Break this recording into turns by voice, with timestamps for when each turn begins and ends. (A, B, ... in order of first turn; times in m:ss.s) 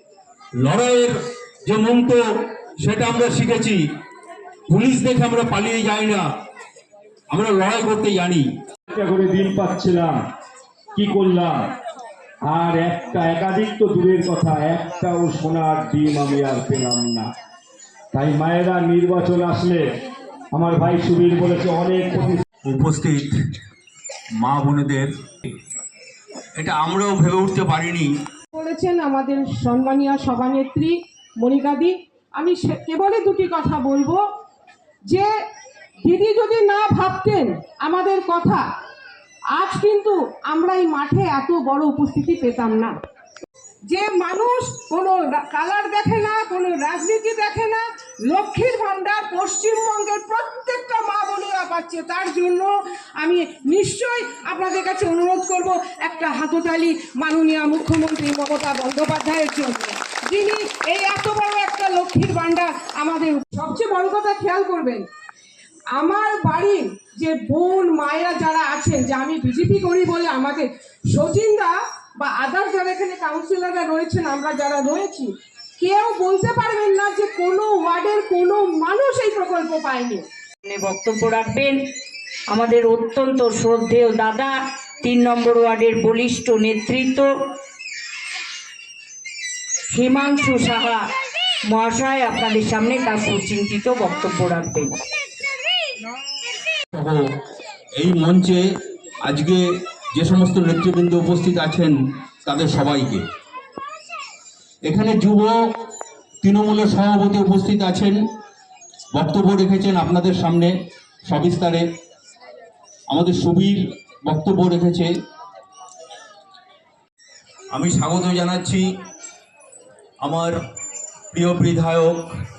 0:00.6-0:01.1 A
0:01.6-0:02.2 A
0:02.8-0:03.8 A
0:04.7-0:06.3 A
0:07.3-0:08.5 A
0:08.9-0:10.2 B
0:10.9-0:11.7 B
0:12.4-0:17.3 B
0:18.1-0:19.8 B
0:20.5-0:22.4 B
0:22.6-0:23.3 A
0:24.4-0:25.1 A
0:26.6-0:28.1 A
0:28.5-0:34.2 C
0:36.0-0:38.6 C
0:39.5-0:43.0 C
0:43.9-1:05.1 C
1:05.9-1:20.2 C
1:20.6-1:21.8 D
1:22.5-1:27.3 D
1:29.9-1:31.0 D
1:31.7-1:35.0 D
1:36.9-1:37.2 A
1:37.9-1:38.6 A
1:39.2-1:43.3 A
1:44.8-1:45.5 A
1:46.4-1:48.2 A
1:49.1-1:50.7 A
1:51.2-1:51.8 A
1:53.1-1:55.1 A
1:57.7-1:58.8 A
2:00.2-2:00.6 A
2:01.3-2:02.3 A